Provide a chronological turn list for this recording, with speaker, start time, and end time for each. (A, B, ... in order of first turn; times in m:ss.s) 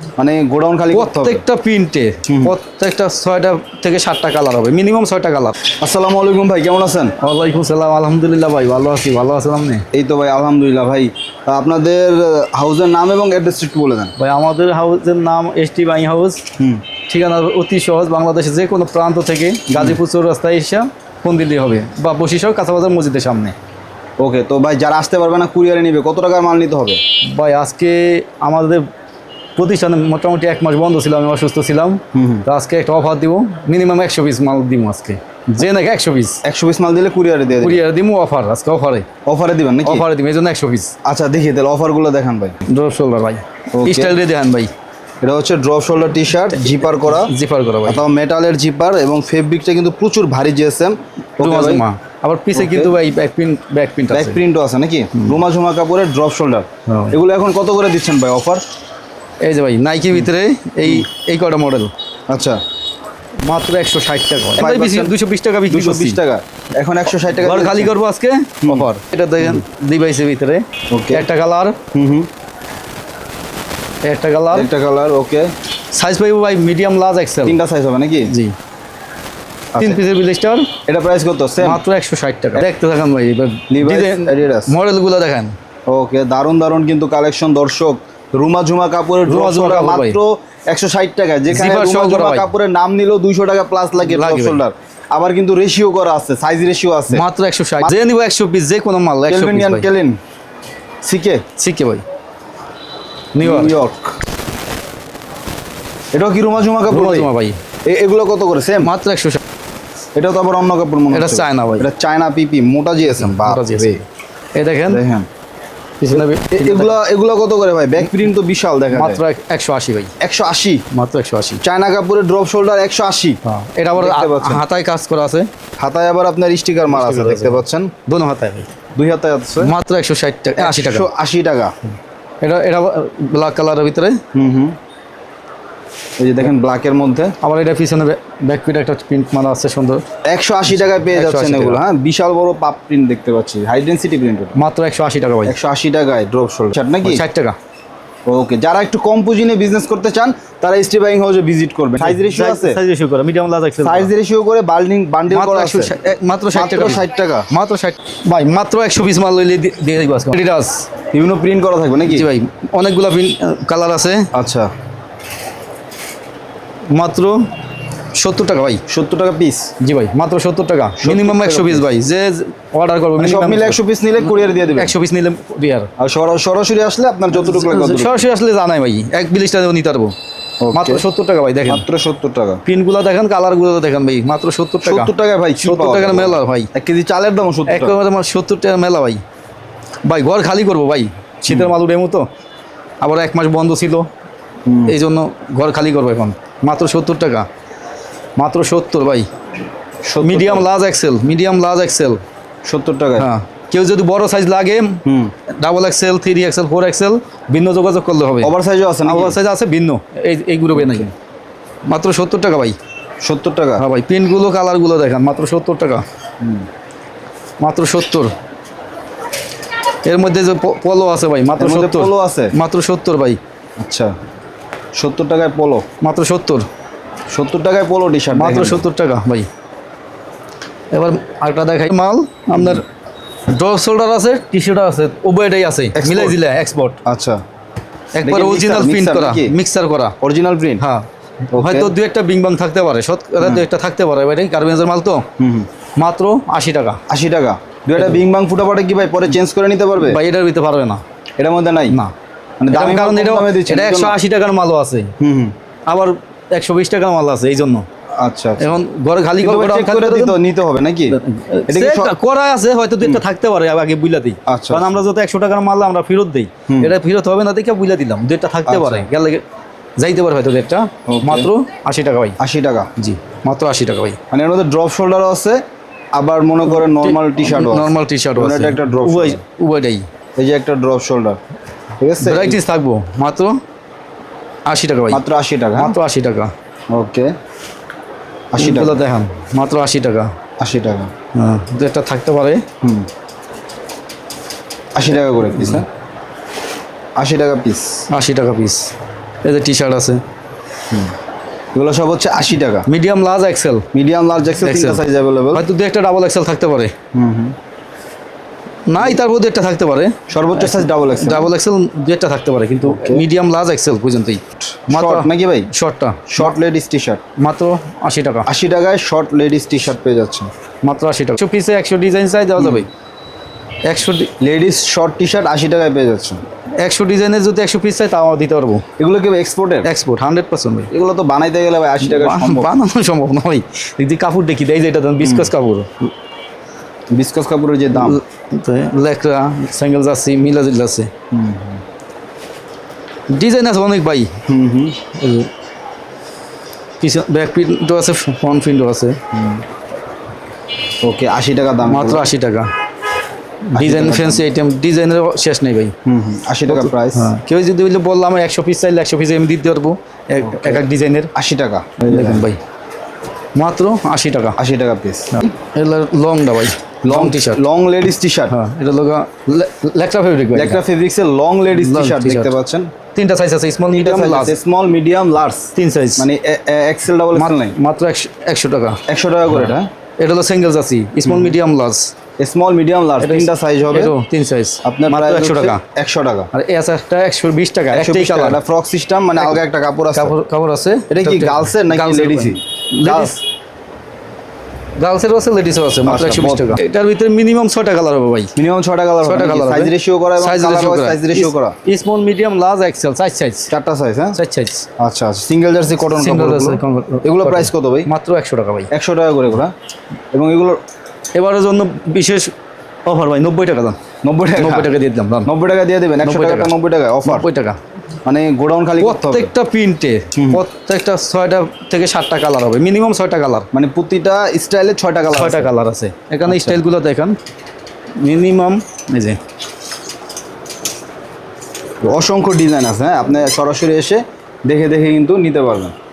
0:00.2-0:01.4 A
0:00.9-0:05.6 B
0:02.3-0:02.6 A
0:05.8-0:07.1 A
0:07.2-0:09.8 B
0:09.9-0:14.1 A
0:14.2-0:16.4 B
0:16.6-0:16.8 A
0:17.1-0:23.5 B
0:19.7-0:20.0 A
0:24.2-0:27.0 A
0:27.2-0:28.8 B
0:29.6-0:36.4 B
0:32.1-0:32.4 A
0:36.4-0:37.8 A
0:37.5-0:39.0 B
0:39.2-0:40.0 A
0:39.8-0:40.9 B
0:41.0-0:42.6 A
0:42.7-0:44.7 B
0:43.7-0:44.2 A
0:45.2-0:47.3 A
0:46.6-0:48.0 B
0:47.8-0:51.8 A
0:51.4-0:54.4 B
0:52.5-0:52.9 A
0:54.1-0:58.6 A
0:56.9-0:57.1 B
0:59.4-1:01.9 B
1:02.3-1:02.6 A
1:03.4-1:06.2 B
1:04.6-1:05.1 A
1:05.7-1:07.9 A
1:07.4-1:11.8 B
1:08.6-1:08.9 A
1:10.9-1:11.3 A
1:11.9-1:12.3 A
1:14.0-1:14.7 B
1:14.5-1:15.5 A
1:15.9-1:17.6 B
1:17.4-1:18.3 A
1:18.3-1:18.5 B
1:19.7-1:20.0 A
1:19.8-1:20.7 B
1:20.9-1:21.8 A
1:21.6-1:25.5 B
1:23.7-1:24.7 A
1:25.9-1:37.2 A
1:29.2-1:30.2 B
1:31.5-1:32.5 B
1:34.0-1:34.6 B
1:37.1-1:39.9 B
1:39.3-1:40.2 A
1:41.0-1:41.4 A
1:41.6-1:42.0 B
1:43.3-1:43.8 B
1:43.4-1:44.2 A
1:46.1-1:47.3 A
1:46.9-1:47.6 B
1:47.8-1:48.9 A
1:48.8-1:49.4 B
1:50.1-1:54.0 A
1:51.1-1:51.8 B
1:53.2-1:54.0 B
1:54.6-1:55.0 B
1:54.9-1:55.3 A
1:56.0-1:57.0 B
1:56.1-1:59.2 A
1:58.9-2:00.1 B
2:00.2-2:00.8 A
2:00.9-2:01.6 B
2:01.6-2:03.4 A
2:03.4-2:05.5 B
2:03.9-2:04.6 A
2:05.8-2:07.9 A
2:06.9-2:08.7 B
2:09.0-2:09.7 A
2:09.6-2:11.1 B
2:10.6-2:11.7 A
2:12.4-2:14.2 B
2:14.3-2:14.8 A
2:16.2-2:17.4 A
2:17.4-2:20.0 B
2:20.3-2:24.6 A
2:21.1-2:21.8 B
2:24.6-2:25.5 B
2:25.5-2:27.2 A
2:27.0-2:27.5 B
2:28.3-2:32.8 A
2:32.0-2:34.1 B
2:33.8-2:35.9 A
2:35.3-2:40.9 B
2:36.5-2:37.5 A
2:41.1-2:42.3 A
2:42.1-2:44.3 B
2:44.3-2:44.7 A
2:46.9-2:47.4 B
2:48.1-2:48.8 B
2:48.9-2:49.7 A
2:49.8-2:53.8 B
2:51.0-2:51.8 A
2:53.2-2:54.9 A
2:54.7-2:55.9 B
2:56.0-2:58.2 A
2:57.3-3:00.1 B
3:00.6-3:01.0 A
3:00.7-3:01.8 B
3:01.7-3:02.6 A
3:02.6-3:05.1 B
3:04.8-3:08.0 A
3:05.6-3:06.7 B
3:07.7-3:09.2 B
3:10.0-3:12.2 B
3:11.5-3:11.7 A
3:13.0-3:14.1 B
3:14.6-3:15.0 A
3:14.9-3:17.4 B
3:18.4-3:19.3 B
3:20.0-3:20.7 A
3:20.2-3:22.2 B
3:22.6-3:23.3 A
3:23.2-3:28.5 B
3:25.0-3:25.3 A
3:28.4-3:29.4 A
3:29.0-3:31.1 B
3:30.7-3:31.1 A
3:31.9-3:32.7 B
3:33.2-3:33.8 A
3:33.8-3:36.0 B
3:36.4-3:36.7 A
3:37.6-3:38.3 B
3:40.0-3:43.4 B
3:41.6-3:42.5 A
3:43.8-3:44.1 A
3:45.0-3:45.8 A
3:46.0-3:46.6 B
3:47.3-3:48.8 A
3:48.3-3:49.5 B
3:50.9-3:52.8 B
3:52.5-3:52.8 A
3:53.5-3:57.0 B
3:55.9-3:56.4 A
3:57.0-3:57.4 A
3:58.1-4:00.1 B
3:58.2-3:59.5 A
4:00.2-4:00.8 A
4:00.8-4:05.2 B
4:01.5-4:01.9 A
4:03.4-4:03.7 A
4:05.4-4:05.7 A
4:06.0-4:07.0 B
4:07.1-4:10.2 A
4:10.0-4:11.0 B
4:11.4-4:12.0 A
4:12.6-4:14.2 A
4:12.7-4:15.1 B
4:15.2-4:15.5 A
4:15.9-4:17.8 B
4:18.2-4:18.8 A
4:18.6-4:20.4 B
4:19.4-4:22.1 A
4:21.1-4:29.4 B
4:24.5-4:25.0 A
4:26.7-4:26.9 A
4:28.7-4:29.1 A
4:30.0-4:32.4 B
4:31.0-4:31.5 A
4:32.4-4:32.9 A
4:33.0-4:34.2 B
4:34.3-4:35.6 A
4:36.1-4:39.4 A
4:36.7-4:40.0 B
4:40.4-4:41.4 A
4:42.0-4:42.6 A
4:42.2-4:43.6 B
4:44.7-4:45.2 B
4:45.1-4:45.9 A
4:45.8-4:46.5 B
4:46.9-4:47.3 A
4:48.5-4:49.0 A
4:48.6-4:50.3 B
4:50.6-4:51.1 A
4:51.3-4:52.6 B
4:52.8-4:53.1 A
4:54.9-4:55.8 A
4:55.5-4:55.8 B
4:57.2-4:58.1 A
4:58.1-4:58.9 B
4:59.4-5:00.2 B
5:01.7-5:02.9 A
5:02.9-5:03.8 B
5:03.9-5:05.6 A
5:04.6-5:05.0 B
5:05.5-5:06.9 B
5:07.1-5:07.5 A
5:08.9-5:16.5 B
5:10.3-5:11.5 A
5:12.8-5:13.2 A
5:14.6-5:15.7 A
5:16.3-5:17.2 A
5:17.4-5:18.5 B
5:18.5-5:20.5 A
5:20.8-5:22.9 B
5:22.6-5:22.8 A
5:23.9-5:24.3 B
5:24.4-5:26.4 A
5:26.8-5:28.8 B
5:29.0-5:29.9 A
5:29.8-5:30.9 B
5:30.9-5:32.7 A
5:32.0-5:36.1 B
5:35.2-5:35.5 A
5:37.1-5:38.2 A
5:37.9-5:41.1 B
5:41.3-5:41.8 A
5:43.3-5:44.3 B
5:44.5-5:45.0 A
5:45.1-5:45.5 B
5:47.0-5:49.2 B
5:49.3-5:49.6 A
5:51.0-5:52.3 A
5:51.8-5:52.7 B
5:53.7-5:55.9 B
5:53.7-5:54.4 A
5:56.0-5:57.3 A
5:56.7-6:01.3 B
6:00.4-6:02.5 A
6:02.1-6:02.6 B
6:03.5-6:04.6 B
6:04.6-6:05.5 A
6:05.3-6:07.6 B
6:07.0-6:08.5 A
6:08.5-6:10.8 B
6:10.5-6:12.9 A
6:11.7-6:12.5 B
6:13.1-6:14.5 B
6:13.9-6:17.7 A
6:15.7-6:16.3 B
6:17.4-6:22.1 B
6:19.1-6:19.9 A
6:21.2-6:21.6 A
6:22.4-6:24.1 A
6:23.2-6:25.8 B
6:24.8-6:26.5 A
6:26.5-6:28.6 B
6:27.9-6:30.3 A
6:30.2-6:33.3 B
6:31.1-6:33.4 A
6:35.0-6:38.5 B
6:36.0-6:36.8 A
6:38.6-6:41.7 A
6:39.2-6:43.7 B
6:43.7-6:44.4 A
6:44.4-6:44.9 B
6:45.0-6:48.1 A
6:46.1-6:48.9 B
6:48.9-6:49.7 A
6:50.3-6:50.8 A
6:51.3-6:52.5 B
6:53.0-6:54.0 B
6:54.2-6:54.9 A
6:54.6-6:55.5 B
6:55.4-6:57.5 A
6:56.2-6:56.7 B
6:57.2-6:57.8 B
6:58.2-6:59.5 A
6:59.0-7:03.7 B
7:00.4-7:00.6 A
7:03.7-7:05.7 A
7:05.3-7:07.4 B
7:06.4-7:06.8 A
7:08.2-7:09.4 B
7:12.0-7:15.9 A